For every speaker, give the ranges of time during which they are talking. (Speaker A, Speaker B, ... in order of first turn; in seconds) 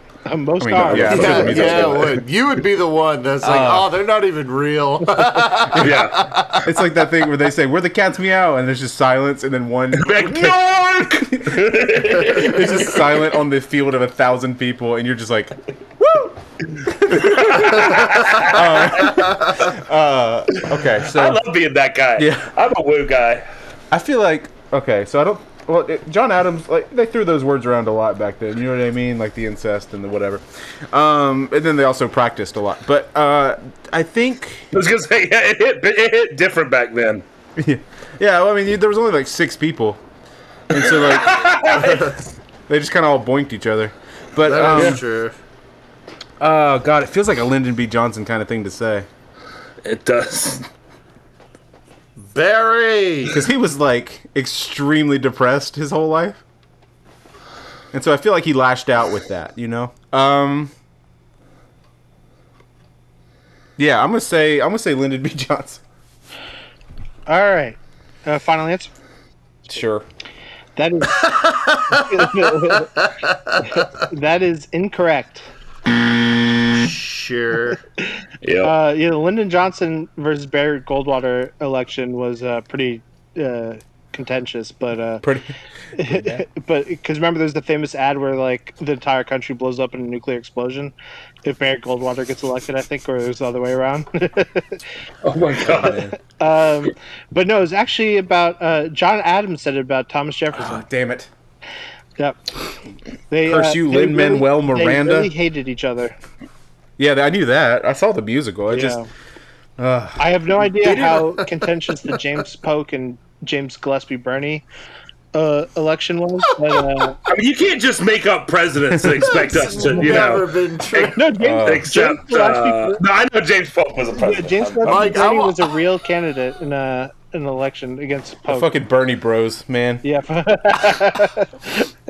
Speaker A: 0.2-1.9, 67.3-68.9, 70.8-72.9, 74.0-75.4, 78.6-85.2, 85.9-94.8, 96.2-100.8, 103.3-106.1, 108.7-109.1, 110.2-114.6, 115.3-117.2, 121.1-123.0, 124.2-128.7, 130.0-131.9
Speaker B: 0.6-2.2, 3.4-3.9, 6.6-10.6, 11.2-21.4, 22.2-22.5, 23.9-34.7, 37.6-40.0, 40.7-42.2, 42.7-45.0, 46.4-49.1, 53.3-56.4, 57.9-60.7, 63.8-65.8, 69.7-70.1, 85.2-86.4, 95.7-96.1, 100.5-101.3, 103.4-105.3, 107.0-109.0, 109.8-110.2, 118.9-119.2, 121.4-121.9, 128.5-130.0
Speaker C: 0.9-2.1, 5.7-6.3, 9.9-13.3, 17.1-19.2, 21.0-23.4, 34.7-37.2, 40.7-42.1, 44.7-45.0, 49.8-50.7, 78.4-78.7, 95.2-96.1, 117.2-125.2
Speaker D: 1.0-6.7, 44.4-45.4, 52.2-53.4, 71.3-73.8, 76.7-77.8, 110.8-111.5, 119.2-121.2, 124.8-125.7